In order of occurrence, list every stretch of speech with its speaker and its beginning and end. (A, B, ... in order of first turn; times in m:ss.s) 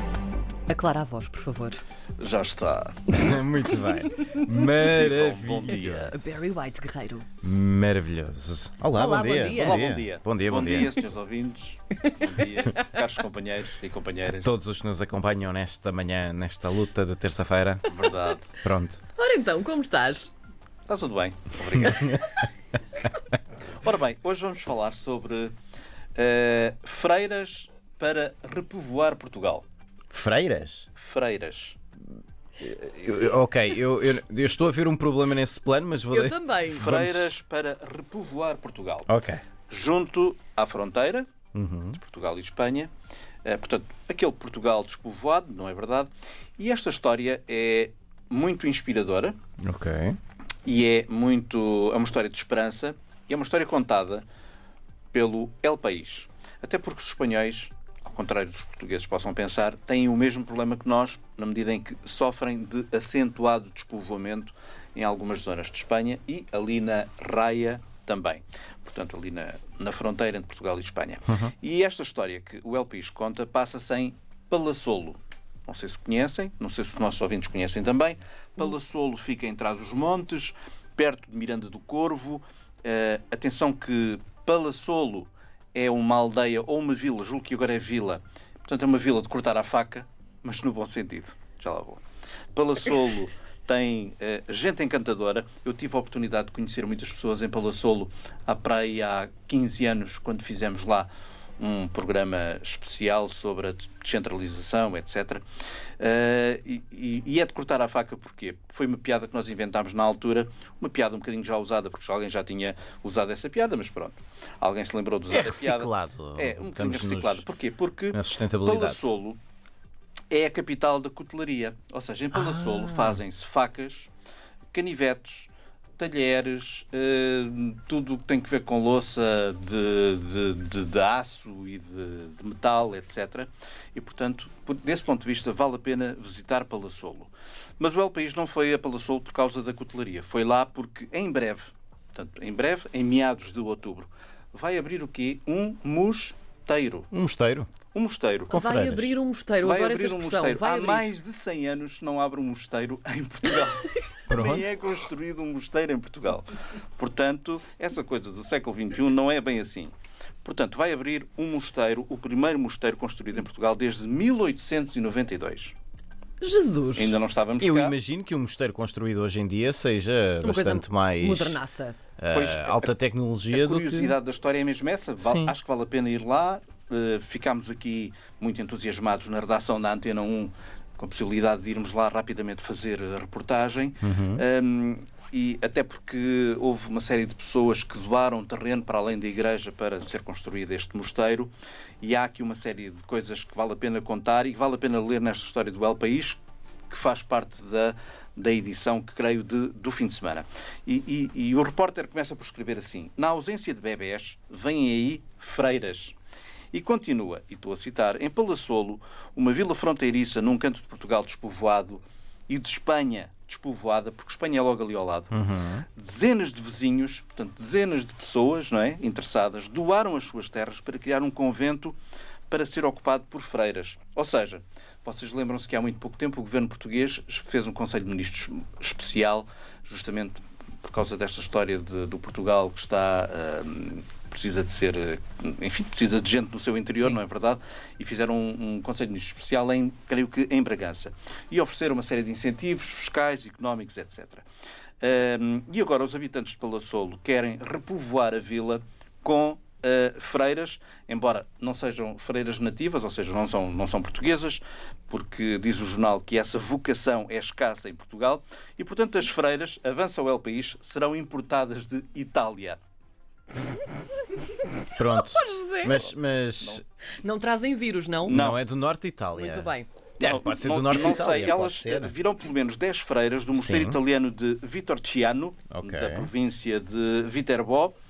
0:00.7-0:01.8 A
0:02.2-0:03.2 B
0:03.1-0:06.4 C
0:04.8-0:06.4 B
0:05.8-0:07.3 A
0:07.4-0:11.0 C
0:09.0-0:09.9 A
0:09.5-0:14.5 B
0:14.4-0:17.8 C
0:17.8-0:18.5 B
0:18.5-0:19.0 C
0:19.2-0:20.3 A
0:20.9-0:22.2 B
0:21.8-0:22.2 C
0:23.8-0:25.5 B
0:26.1-0:29.6 B
0:30.1-0:30.9 C
0:31.0-0:31.8 B
0:32.6-0:37.4 C
0:36.1-0:36.9 A
0:36.7-0:39.1 B
0:39.1-0:39.4 C
0:39.7-0:41.2 B
0:41.6-0:42.0 C
0:41.9-0:42.9 B
0:43.4-0:49.3 B
0:49.6-0:50.2 C
0:50.6-0:54.2 B
0:55.1-1:32.0 B
1:32.5-1:45.4 B
1:46.0-1:59.4 B
1:55.3-1:57.4 C
1:58.1-1:59.1 C
2:00.3-2:04.1 B
2:02.3-2:03.2 C
2:04.7-2:27.1 B
2:27.1-2:27.7 C
2:27.9-2:28.6 B
2:28.5-2:29.1 C
2:28.5-2:31.1 A
2:29.6-2:45.8 B
2:34.3-2:34.7 C
2:46.4-2:47.2 A
2:47.0-2:48.0 B
2:47.6-2:51.6 C
2:50.4-2:52.0 A
2:52.2-2:54.2 C
2:52.3-2:52.9 B
2:53.5-3:26.2 B
2:55.2-2:55.5 C
3:04.0-3:04.4 C
3:26.7-3:35.4 B
3:35.3-3:35.8 C
3:36.0-3:42.0 B
3:42.5-4:04.4 B
4:05.0-4:22.8 B
4:25.0-4:26.8 C
4:25.1-4:26.0 A
4:27.2-4:28.5 A
4:28.2-4:28.6 B
4:28.3-4:32.1 C
4:29.3-4:29.9 A
4:30.2-4:37.9 B
4:33.5-4:34.0 C
4:35.7-4:36.3 C